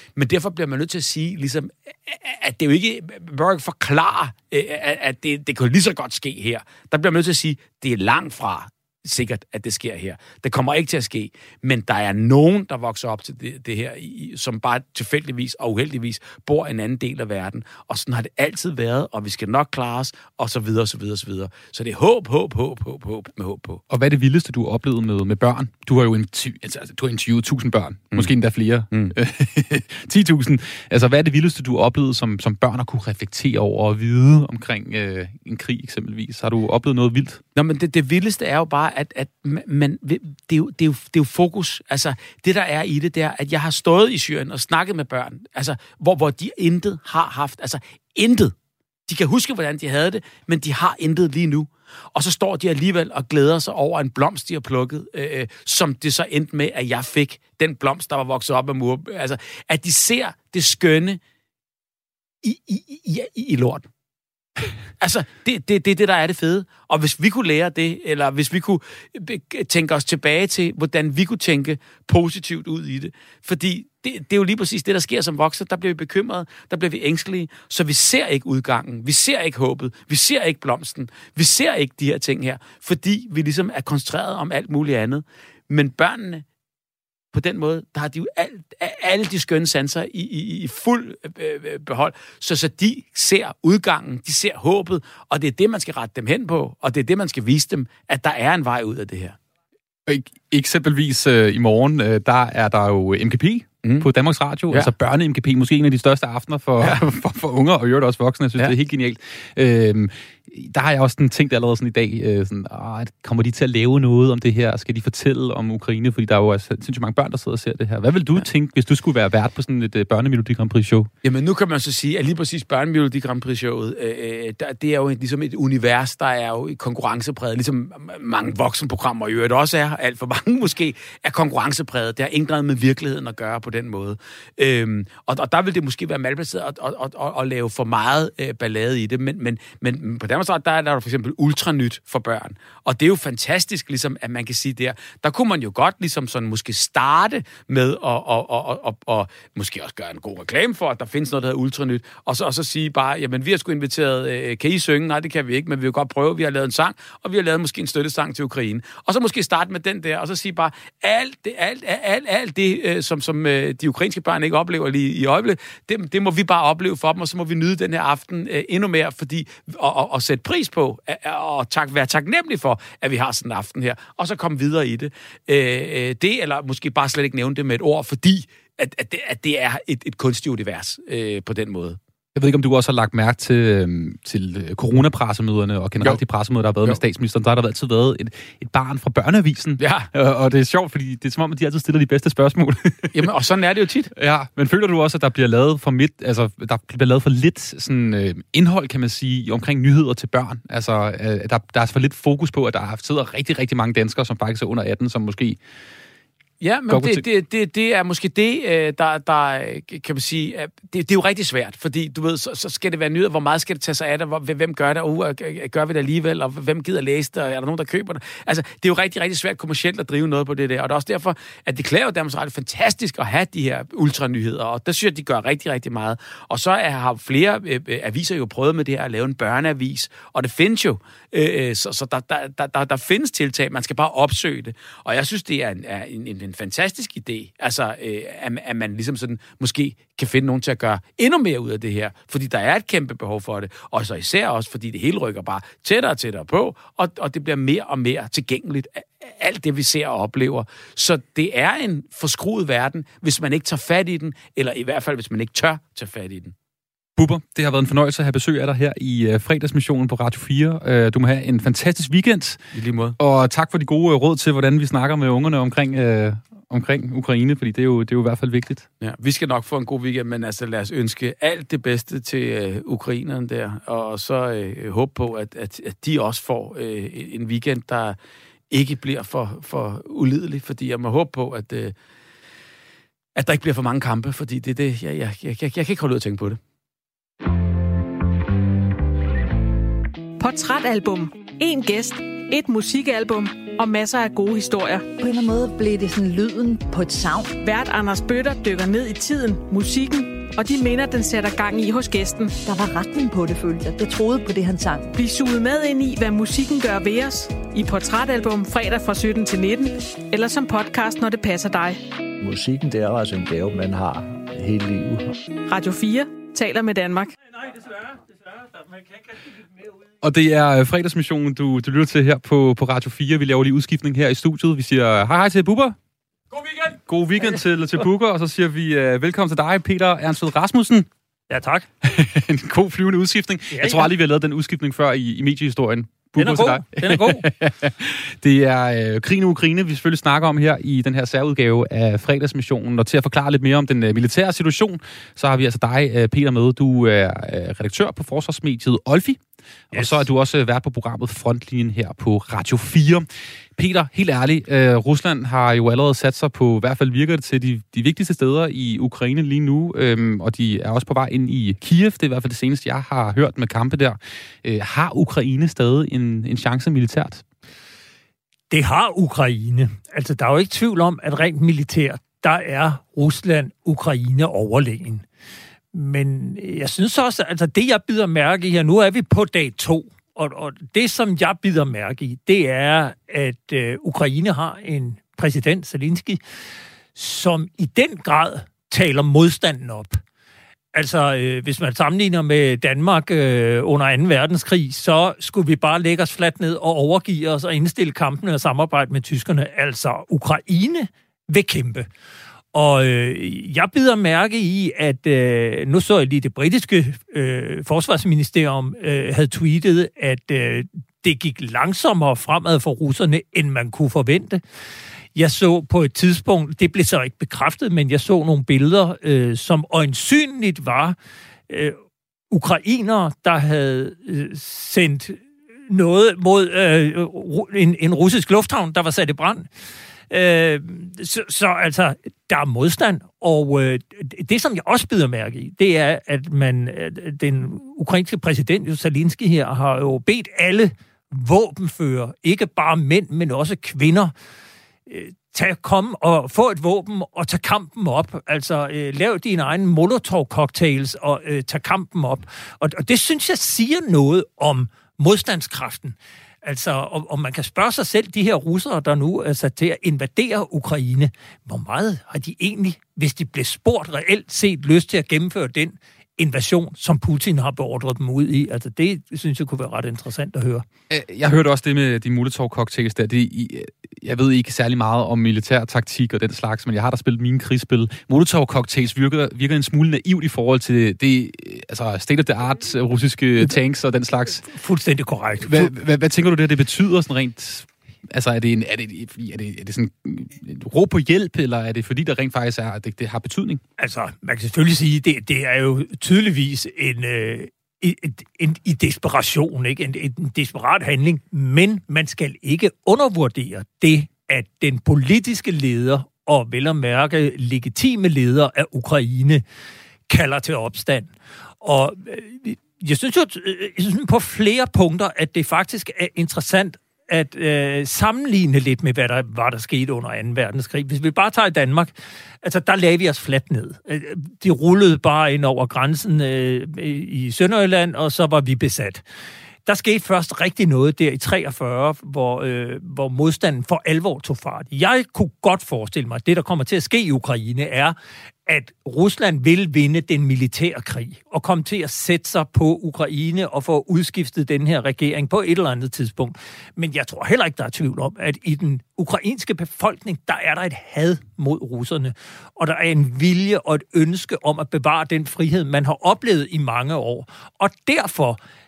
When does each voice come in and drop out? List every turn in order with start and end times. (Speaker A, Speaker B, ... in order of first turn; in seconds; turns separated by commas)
Speaker A: 0.1-23.8, Speaker B: 23.9-37.4, Speaker A: 37.5-48.5, Speaker A: 49.1-61.2, Speaker A: 62.4-63.9, Speaker A: 65.0-86.4, Speaker A: 87.3-99.4, Speaker B: 100.0-121.1, Speaker A: 121.2-182.0, Speaker B: 182.3-193.3, Speaker A: 189.8-190.1, Speaker A: 193.1-194.1, Speaker B: 194.1-205.6, Speaker A: 206.6-256.5, Speaker B: 206.9-207.3, Speaker B: 257.1-262.6, Speaker A: 262.7-263.1, Speaker B: 263.2-268.9, Speaker A: 269.0-278.2, Speaker A: 278.7-281.9, Speaker A: 283.4-286.6, Speaker C: 290.4-295.1, Speaker D: 295.2-297.5, Speaker C: 297.6-302.6, Speaker D: 302.6-305.1, Speaker C: 305.1-312.0, Speaker E: 312.4-315.3, Speaker C: 315.7-317.3, Speaker B: 320.2-325.9, Speaker B: 326.9-331.1, Speaker F: 331.5-331.9, Speaker B: 332.0-349.4, Speaker F: 333.7-334.1, Speaker F: 336.4-337.4, Speaker B: 349.9-367.4, Speaker F: 349.9-350.2, Speaker F: 368.7-375.2, Speaker F: 375.9-386.4, Speaker F: 387.1-390.2, Speaker F: 390.9-402.1, Speaker F: 402.7-414.6, Speaker F: 415.3-421.1, Speaker F: 421.7-422.0, Speaker F: 422.5-429.7, Speaker F: 430.3-444.3, Speaker F: 445.1-470.9, Speaker B: 471.1-484.6, Speaker F: 484.6-485.9, Speaker B: 485.6-493.8, Speaker F: 494.0-509.6, Speaker F: 510.3-529.2, Speaker F: 529.8-538.1, Speaker F: 538.7-558.6